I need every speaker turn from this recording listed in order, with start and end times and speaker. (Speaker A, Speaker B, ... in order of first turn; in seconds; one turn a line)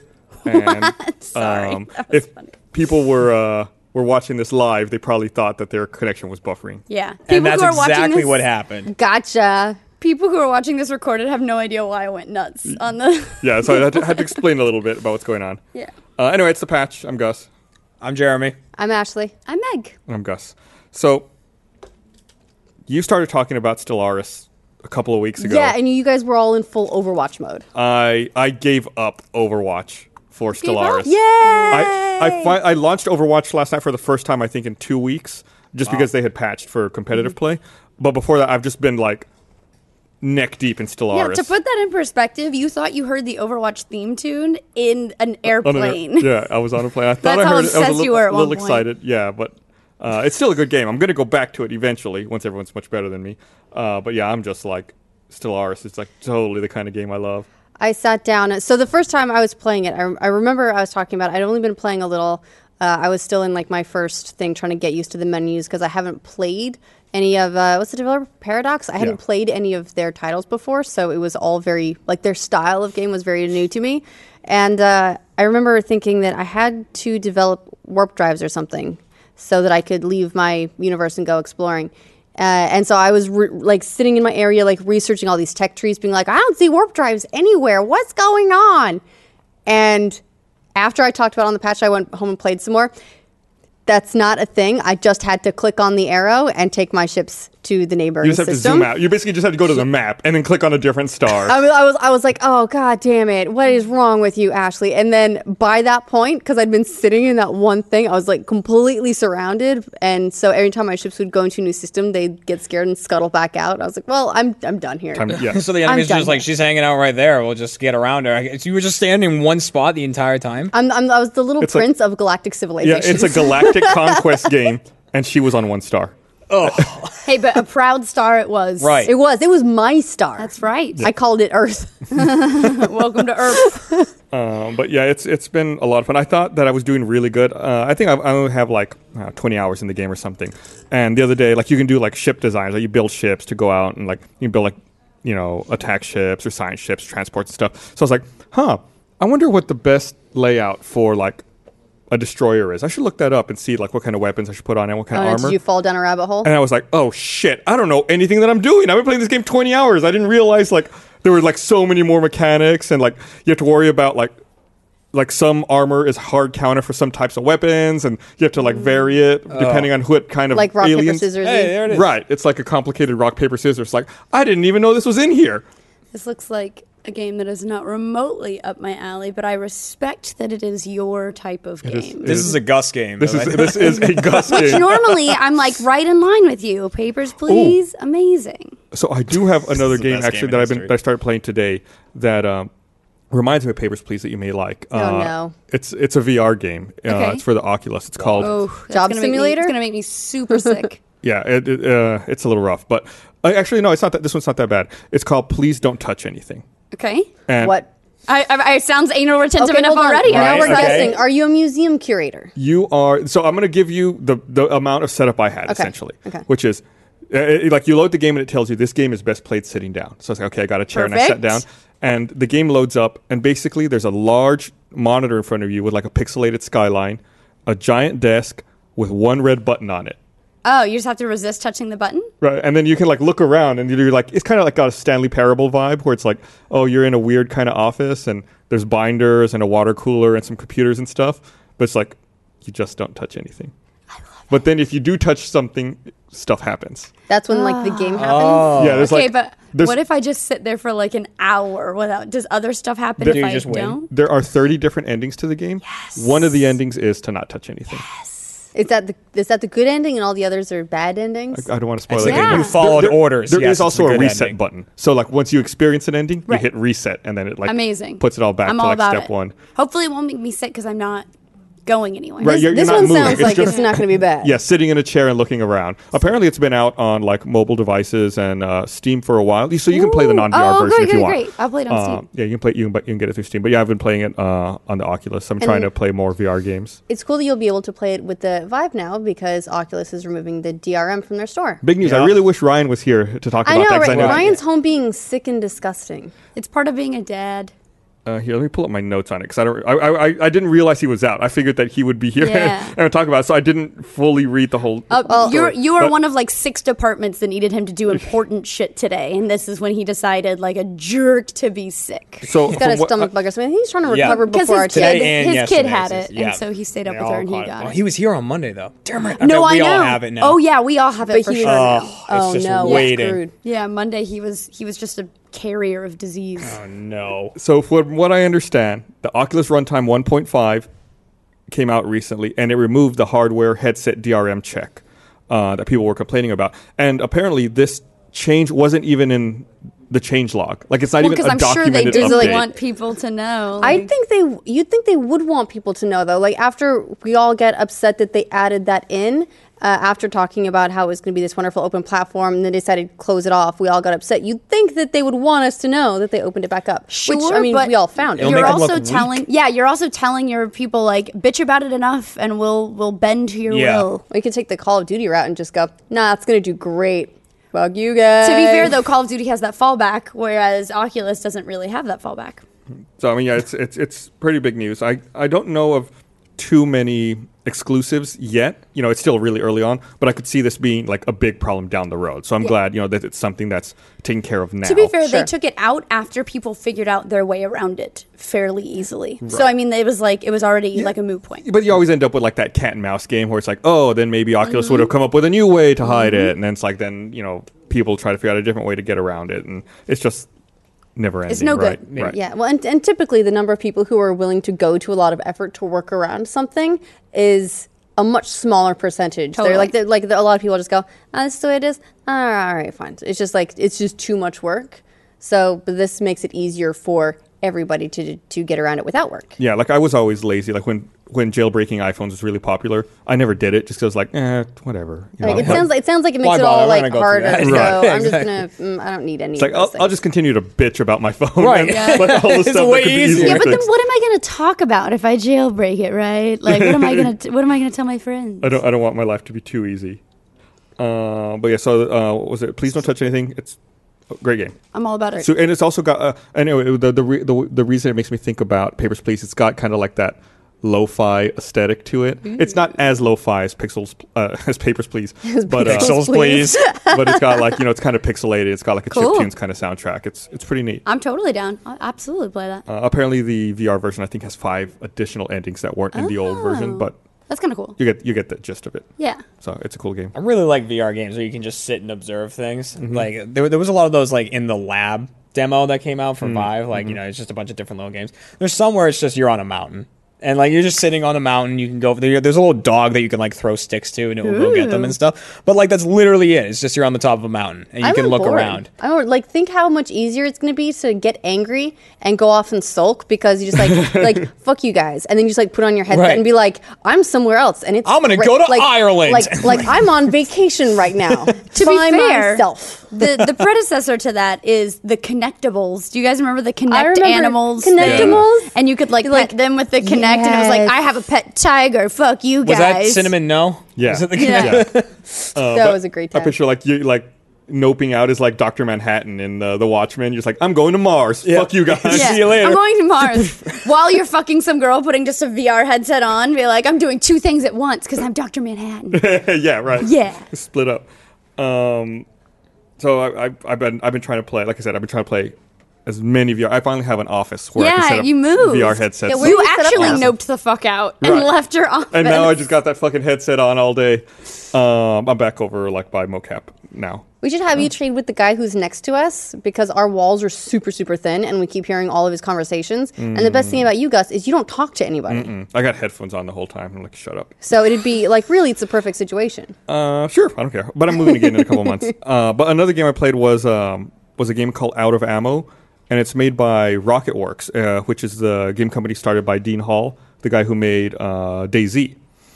Speaker A: 0.4-2.5
Speaker B: 0.5-6.8
Speaker A: 6.9-8.4
Speaker C: 7.3-8.9
Speaker D: 8.9-9.8
Speaker A: 10.0-14.3
Speaker B: 13.4-15.6
Speaker B: 16.2-17.5
Speaker C: 18.0-18.6
Speaker D: 18.8-19.3
Speaker A: 19.5-19.9
Speaker B: 20.1-21.3
Speaker B: 22.9-25.8
Speaker D: 25.4-27.7
Speaker B: 27.8-31.1
Speaker A: 30.6-31.9
Speaker D: 31.1-32.5
Speaker B: 31.7-39.3
Speaker B: 40.2-41.5
Speaker A: 41.1-46.4
Speaker B: 45.6-57.5
Speaker A: 47.2-48.9
Speaker D: 57.8-89.0
Speaker D: 89.7-90.2
Speaker D: 90.8-92.9
Speaker D: 93.9-98.9
Speaker B: 98.2-101.5
Speaker D: 101.5-116.5
Speaker B: 115.1-115.6
Speaker C: 115.3-120.7
Speaker D: 120.7-124.4
Speaker B: 121.6-121.9
Speaker B: 122.8-126.1
Speaker C: 126.5-127.2
Speaker B: 126.6-126.9
Speaker A: 127.2-129.1
Speaker C: 128.8-129.1
Speaker D: 129.1-133.0
Speaker A: 130.4-131.0
Speaker A: 132.2-134.0
Speaker D: 133.5-134.1
Speaker B: 134.3-151.4
Speaker B: 152.1-155.6
Speaker D: 155.1-156.5
Speaker B: 156.4-164.3
Speaker B: 165.1-171.3
Speaker C: 169.5-169.9
Speaker D: 170.5-171.8
Speaker C: 171.4-172.1
Speaker B: 171.9-175.7
Speaker A: 176.1-182.5
Speaker B: 181.8-182.6
Speaker C: 182.2-184.2
Speaker B: 183.2-185.4
Speaker A: 184.3-188.8
Speaker B: 187.5-187.8
Speaker B: 188.9-192.7
Speaker C: 189.7-190.9
Speaker B: 193.3-198.6
Speaker D: 194.9-195.5
Speaker A: 197.1-197.4
Speaker A: 198.4-201.0
Speaker D: 198.9-199.8
Speaker B: 201.2-206.7
Speaker A: 206.9-207.3
Speaker B: 207.5-207.8
Speaker D: 207.6-207.9
Speaker A: 208.3-211.2
Speaker D: 209.6-212.5
Speaker B: 210.3-211.1
Speaker C: 210.3-211.1
Speaker B: 212.6-230.2
Speaker D: 215.7-216.4
Speaker A: 220.9-221.6
Speaker A: 230.6-232.3
Speaker B: 232.4-243.7
Speaker B: 244.5-247.1
Speaker D: 247.3-249.0
Speaker A: 247.5-254.1
Speaker C: 248.2-249.2
Speaker B: 248.7-250.0
Speaker C: 253.2-254.0
Speaker B: 253.2-258.0
Speaker A: 255.9-256.3
Speaker D: 258.8-261.7
Speaker B: 261.5-269.6
Speaker C: 262.1-264.6
Speaker A: 262.2-262.8
Speaker A: 267.6-271.3
Speaker A: 271.9-273.9
Speaker D: 272.4-274.6
Speaker B: 272.4-287.0
Speaker A: 279.9-282.2
Speaker D: 285.6-285.9
Speaker D: 287.1-291.8
Speaker B: 291.8-294.6
Speaker C: 292.0-292.4
Speaker D: 293.6-296.3
Speaker C: 294.0-294.6
Speaker A: 296.6-297.7
Speaker B: 298.3-306.1
Speaker A: 302.4-302.9
Speaker A: 305.1-312.5
Speaker D: 305.3-305.7
Speaker B: 312.4-313.3
Speaker D: 312.7-315.4
Speaker C: 314.1-320.6
Speaker A: 314.2-318.0
Speaker A: 319.4-322.1
Speaker D: 321.3-323.5
Speaker C: 321.6-323.4
Speaker A: 322.8-326.8
Speaker C: 326.6-327.5
Speaker B: 327.6-330.9
Speaker B: 331.7-342.7
Speaker A: 341.2-344.1
Speaker D: 342.1-342.6
Speaker D: 343.8-358.9
Speaker A: 357.1-364.2
Speaker C: 358.4-359.5
Speaker C: 363.7-364.1
Speaker D: 364.3-368.9
Speaker A: 368.4-372.6
Speaker B: 373.2-385.2
Speaker A: 384.8-391.6
Speaker D: 385.2-385.5
Speaker B: 389.4-389.7
Speaker B: 391.6-400.5
Speaker A: 394.8-395.1
Speaker B: 401.2-402.4
Speaker A: 401.5-402.0
Speaker C: 402.1-402.4
Speaker D: 402.3-419.6
Speaker A: 409.6-409.9
Speaker B: 419.6-425.9
Speaker D: 425.4-430.1
Speaker C: 425.4-428.6
Speaker B: 427.6-428.2
Speaker B: 429.6-433.9
Speaker C: 431.6-433.8
Speaker A: 431.9-432.5
Speaker A: 433.3-438.8
Speaker B: 436.7-437.3
Speaker B: 438.6-440.2
Speaker B: 441.0-443.8
Speaker B: 444.3-444.8
Speaker A: 444.9-445.5
Speaker B: 445.4-456.3
Speaker D: 455.4-457.8
Speaker C: 455.8-456.9
Speaker B: 457.1-461.0
Speaker A: 459.1-459.5
Speaker A: 461.1-462.8
Speaker B: 462.9-467.2
Speaker A: 466.1-468.0
Speaker B: 468.0-469.1
Speaker A: 469.2-469.4
Speaker B: 469.6-470.3
Speaker C: 470.4-488.9
Speaker B: 473.0-473.3
Speaker B: 476.4-477.2
Speaker A: 484.4-485.1
Speaker D: 488.0-503.1
Speaker B: 493.8-494.4
Speaker C: 496.1-496.6
Speaker C: 498.1-500.0
Speaker A: 501.7-513.3
Speaker C: 503.2-503.5
Speaker D: 506.9-511.0
Speaker B: 508.0-508.4
Speaker C: 512.6-515.3
Speaker B: 514.0-514.9
Speaker A: 514.3-514.9
Speaker B: 515.5-522.6
Speaker D: 515.6-516.5
Speaker C: 521.4-523.5
Speaker A: 522.1-529.4
Speaker B: 529.1-532.3
Speaker A: 530.0-530.5
Speaker B: 533.0-540.4
Speaker A: 537.8-542.7
Speaker D: 539.3-540.3
Speaker B: 541.2-541.5
Speaker B: 542.1-547.2
Speaker D: 547.4-555.5
Speaker B: 553.2-553.9
Speaker B: 555.3-557.6
Speaker D: 557.6-559.8
Speaker B: 559.9-572.2